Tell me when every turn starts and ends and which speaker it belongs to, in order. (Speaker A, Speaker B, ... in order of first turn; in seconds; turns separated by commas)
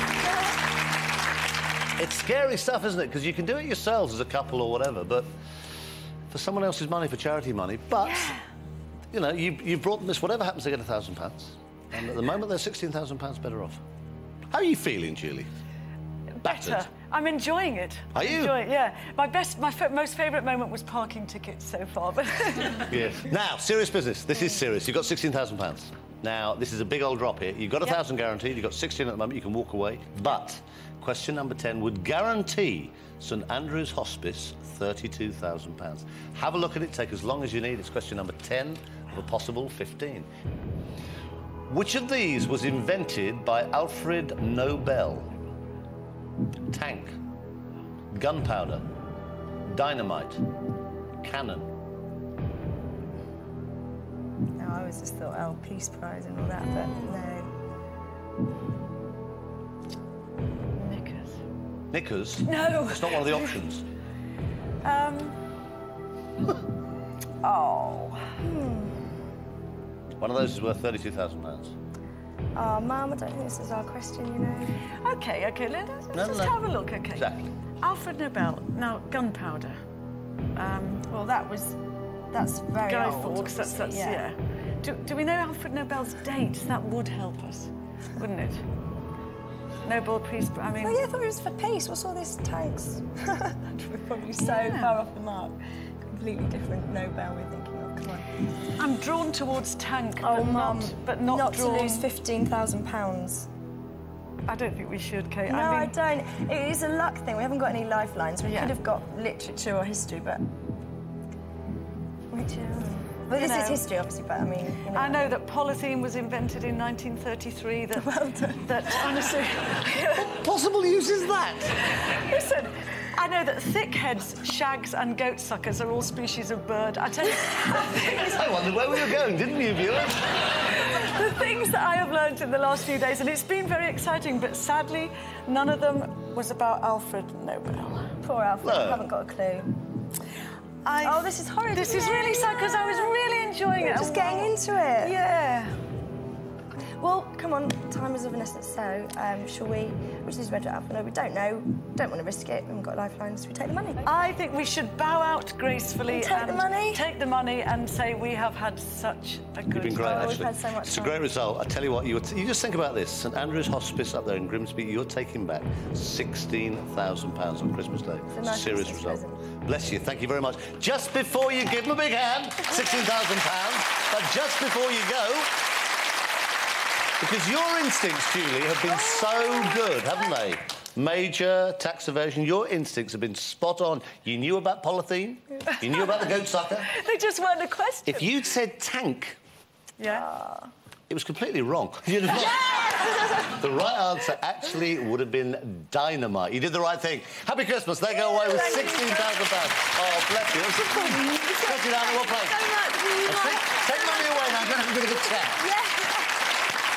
Speaker A: 2.0-5.3, Speaker A: 6.3-8.4, Speaker B: 8.0-8.4, Speaker A: 9.1-13.8, Speaker A: 14.5-15.5, Speaker B: 16.4-23.0, Speaker A: 16.4-16.9, Speaker A: 18.1-18.6, Speaker A: 22.9-40.3, Speaker A: 41.7-45.3, Speaker A: 46.7-47.1, Speaker A: 48.1-48.9, Speaker A: 49.7-50.5, Speaker A: 51.2-51.7, Speaker C: 54.6-57.5, Speaker B: 56.6-57.2, Speaker B: 60.8-61.4, Speaker A: 61.9-63.8, Speaker B: 62.4-63.7, Speaker B: 64.8-65.4, Speaker B: 67.4-68.4, Speaker C: 68.4-69.0, Speaker A: 70.2-71.8, Speaker C: 72.5-74.8, Speaker B: 75.0-79.8, Speaker A: 76.1-76.6, Speaker A: 77.1-77.5, Speaker B: 80.6-81.1, Speaker C: 81.1-81.8, Speaker C: 82.3-84.2, Speaker B: 82.9-88.6, Speaker B: 89.8-91.0, Speaker C: 90.8-95.6, Speaker B: 94.4-95.0, Speaker C: 96.1-98.3, Speaker B: 98.8-102.1, Speaker C: 100.2-103.5, Speaker B: 104.5-106.0, Speaker C: 105.5-110.5, Speaker B: 108.5-108.8, Speaker C: 112.3-115.3, Speaker B: 113.3-113.8, Speaker B: 114.9-120.4, Speaker C: 118.0-118.7, Speaker A: 120.2-121.8, Speaker B: 122.0-128.4, Speaker A: 128.1-130.5, Speaker B: 130.7-138.2, Speaker C: 138.2-139.7, Speaker A: 138.6-139.1, Speaker B: 140.8-145.8, Speaker C: 141.0-143.2, Speaker C: 143.8-145.2, Speaker C: 147.0-154.1, Speaker B: 154.0-160.5, Speaker C: 156.1-157.0, Speaker A: 159.7-175.5, Speaker C: 160.0-161.2, Speaker C: 168.3-169.5, Speaker A: 177.2-186.9, Speaker B: 186.8-188.3, Speaker A: 188.1-189.4, Speaker B: 190.0-190.3, Speaker C: 190.0-190.7, Speaker A: 191.1-202.6, Speaker B: 198.2-199.5, Speaker C: 198.7-199.0, Speaker C: 201.1-206.5, Speaker A: 203.2-205.7